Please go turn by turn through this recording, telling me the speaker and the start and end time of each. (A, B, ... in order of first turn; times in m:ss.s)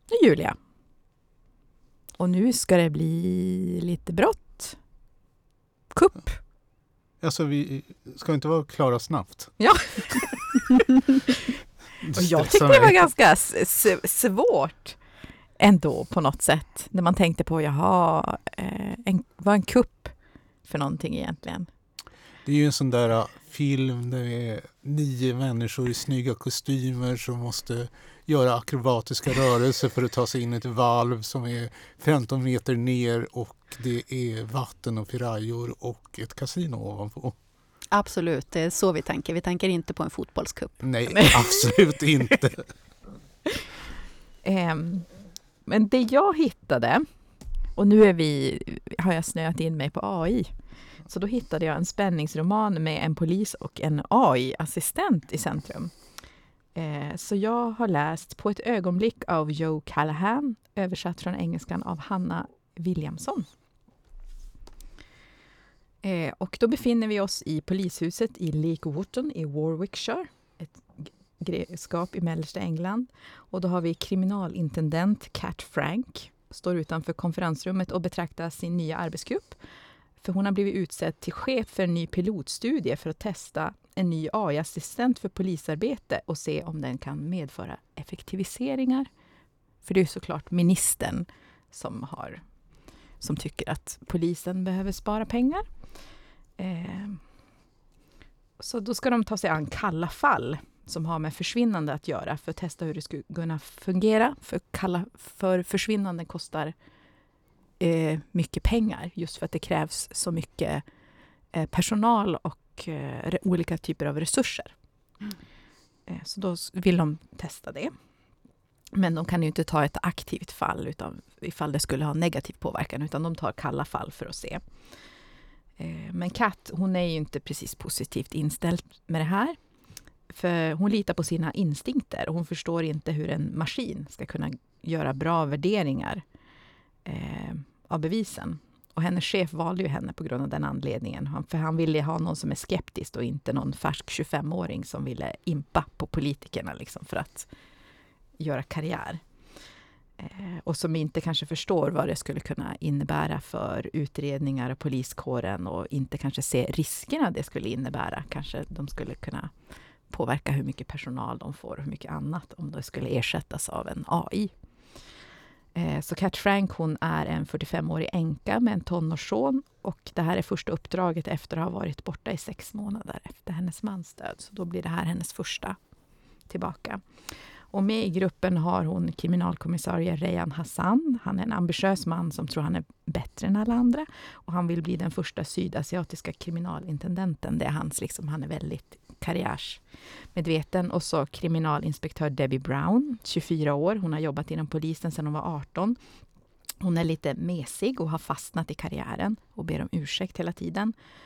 0:00.1-0:00.6 A
0:02.2-0:04.8 A
0:05.9-0:06.4 A
0:07.2-0:09.6 B
0:09.6-0:11.3 A
0:12.0-0:13.0 B
0:12.2-0:15.0 A
0:15.6-0:20.1 A
0:20.6-0:21.7 A
0:22.4-0:37.4 B
0:37.9-0:40.9 C
0:40.8-0:42.6 B
0:41.2-0:41.6 A
0:44.4-0:45.1 A
0:45.6-0:47.0 A
0:47.8-0:50.5 A
0:51.0-0:55.9 A
0:56.7-1:03.5 A
1:06.0-1:19.6 A
1:20.2-1:29.1 A
1:29.8-1:32.4 A
1:33.2-1:35.7 A
1:36.6-1:37.2 A
1:38.6-1:46.7 A
1:47.8-1:50.8 A
1:51.5-1:54.7 A
1:56.1-1:57.9 A
1:58.9-2:04.6 A
2:05.8-2:09.6 A
2:10.3-2:16.2 A
2:17.0-2:27.5 A
2:28.4-2:29.2 A
2:30.2-2:39.5 A
2:40.1-2:44.5 A
2:45.7-2:55.8 A
2:56.5-2:57.0 A
2:57.7-3:09.8 A
3:10.3-3:16.0 A
3:16.8-3:20.9 A